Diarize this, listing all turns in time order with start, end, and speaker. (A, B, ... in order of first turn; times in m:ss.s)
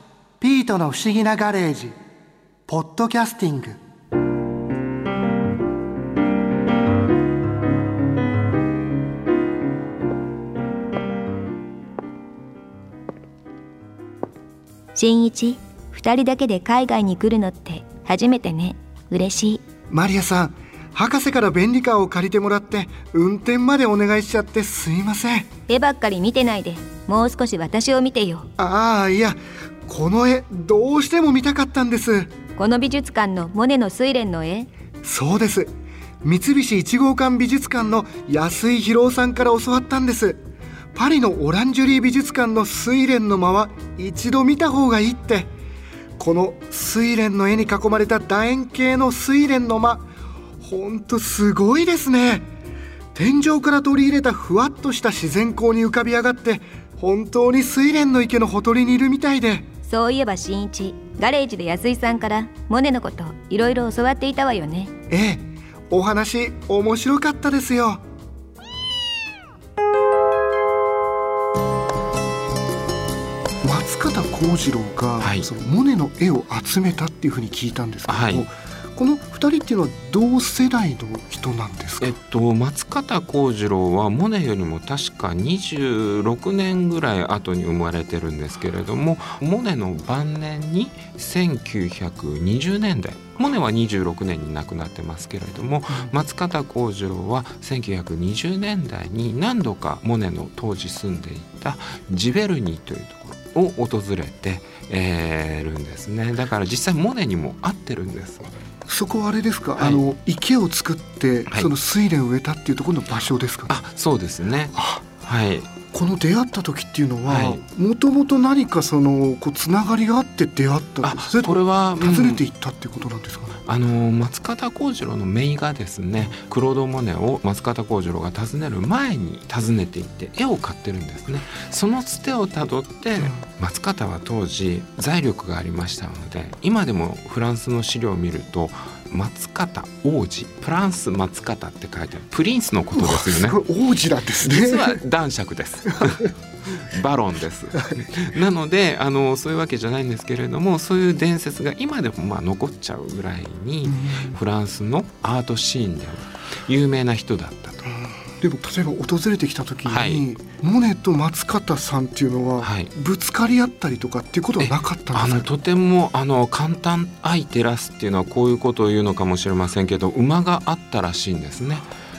0:00.4-0:02.0 A
0:02.7-0:03.8 A
0:14.9-0:19.6 B
0:19.9-0:25.5 A
0:25.7-0:28.4 B
0:28.6-0:32.3 A
0:32.6-0:34.7 B
0:35.0-0:35.7 A
0:36.2-0:40.4 A
0:40.9-0:45.5 A
0:46.2-0:50.1 A
0:50.6-0:52.5 A
0:53.1-0:59.7 A
0:59.9-1:04.9 B
1:05.1-1:08.0 A
1:13.6-1:22.2 A
1:15.2-1:15.5 C
1:18.1-1:18.5 C
1:22.0-1:48.5 C
1:48.8-1:53.7 A
1:49.8-1:50.0 C
1:53.7-1:55.7 C
1:54.7-1:55.0 A
1:55.9-2:03.6 A
1:57.2-1:57.6 C
2:01.0-2:02.4 C
2:03.6-2:23.6 C
2:13.2-2:13.4 A
2:22.9-2:25.0 A
2:24.4-2:37.9 C
2:33.8-2:34.4 A
2:38.4-2:45.5 A
2:39.8-2:40.3 C
2:42.6-2:42.9 C
2:44.6-2:51.9 C